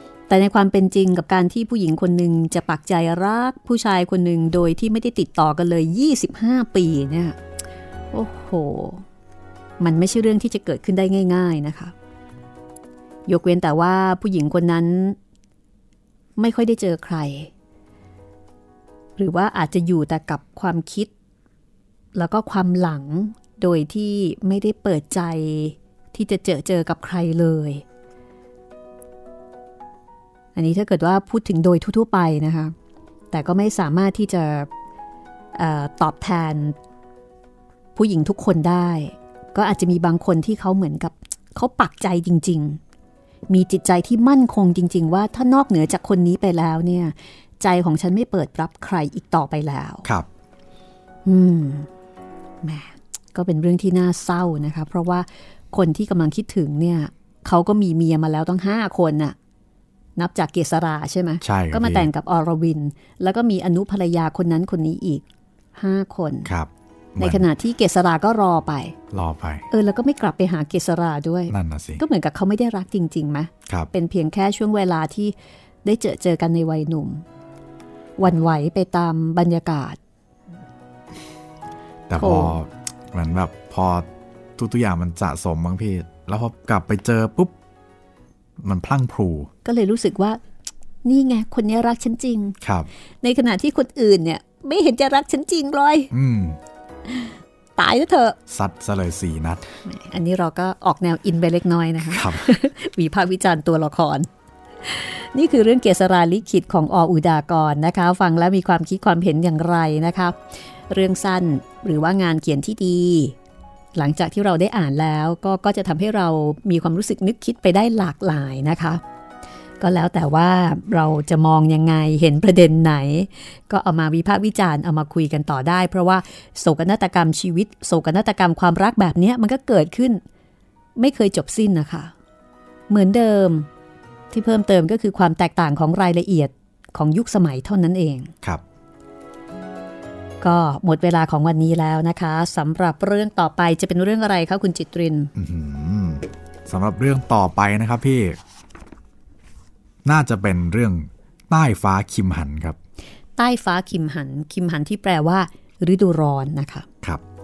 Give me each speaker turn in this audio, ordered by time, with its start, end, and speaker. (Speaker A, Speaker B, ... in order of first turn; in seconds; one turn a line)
Speaker A: 0.3-7.4
Speaker A: 8.1-9.0
Speaker A: 9.8-11.9
Speaker A: 13.3-15.2
Speaker A: 16.4-17.5
Speaker A: 19.2-21.1
Speaker A: 22.1-27.8
Speaker A: 30.5-32.7
Speaker A: 33.3-34.7
Speaker A: 35.5-36.8
Speaker A: 38.0-42.8
Speaker A: 43.5-50.0
Speaker A: 51.2-51.9
Speaker A: 52.6-59.3
Speaker A: 60.2-66.5
Speaker B: 61.4-62.1
Speaker B: 66.4-67.5
Speaker A: 67.2-69.0
Speaker B: 69.1-69.7
Speaker A: 69.7-77.2
Speaker B: 71.5-72.0
Speaker A: 78.2-80.0
Speaker B: 82.1-87.5
Speaker A: 82.2-82.5
Speaker B: 88.6-89.5
Speaker A: 89.6-90.4
Speaker A: 91.0-92.6
Speaker B: 92.6-92.9
Speaker A: 93.2-96.1
Speaker B: 96.1-96.6
Speaker A: 97.1-98.4
Speaker B: 98.5-99.8
Speaker A: 99.8-104.3
Speaker B: 102.0-102.5
Speaker A: 104.8-113.3
Speaker A: 113.9-119.0
Speaker A: 119.8-130.2
Speaker A: 130.9-132.1
Speaker A: 132.9-133.7
Speaker A: 134.3-138.3
Speaker A: 140.4-145.3
Speaker B: 145.3-148.4
Speaker B: 150.0-152.8
Speaker A: 153.3-156.9